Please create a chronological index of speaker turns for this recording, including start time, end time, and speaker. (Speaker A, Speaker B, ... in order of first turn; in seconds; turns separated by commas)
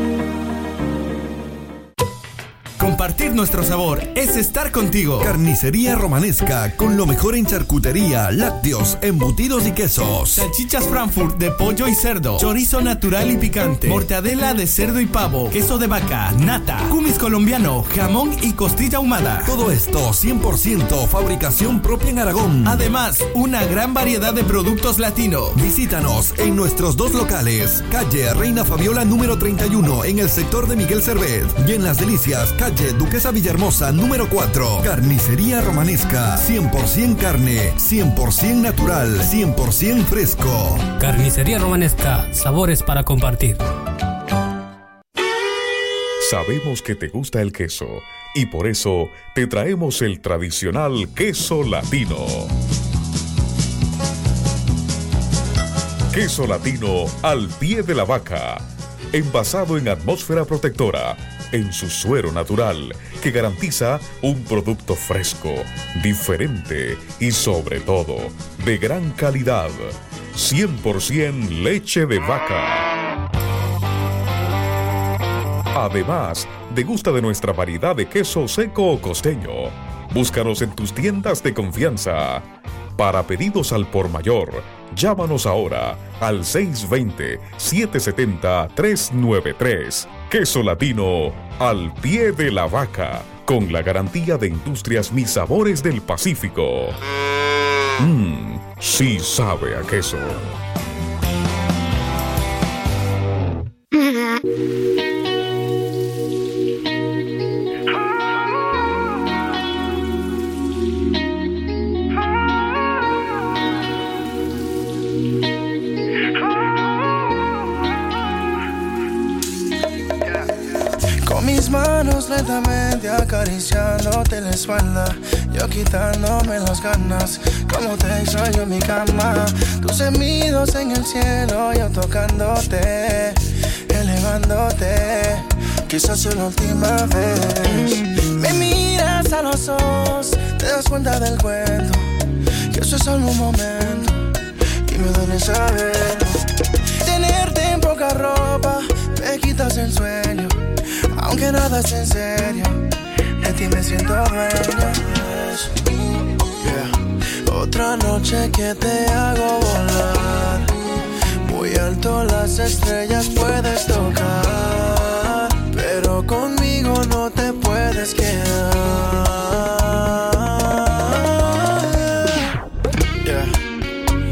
Speaker A: 2.8-5.4, Speaker B: 5.2-10.4, Speaker A: 10.3-19.5, Speaker B: 19.4-22.8, Speaker A: 22.6-25.6, Speaker B: 25.6-40.9, Speaker C: 41.0-43.6, Speaker D: 46.2-52.5, Speaker D: 56.1-72.9, Speaker D: 75.7-97.0, Speaker D: 98.0-100.5, Speaker E: 121.2-142.0, Speaker E: 142.7-144.2, Speaker E: 144.9-146.4, Speaker E: 147.0-150.6, Speaker E: 151.2-152.8, Speaker E: 153.4-155.7, Speaker E: 156.6-156.9, Speaker E: 157.5-160.7, Speaker E: 161.4-171.7, Speaker E: 173.2-173.6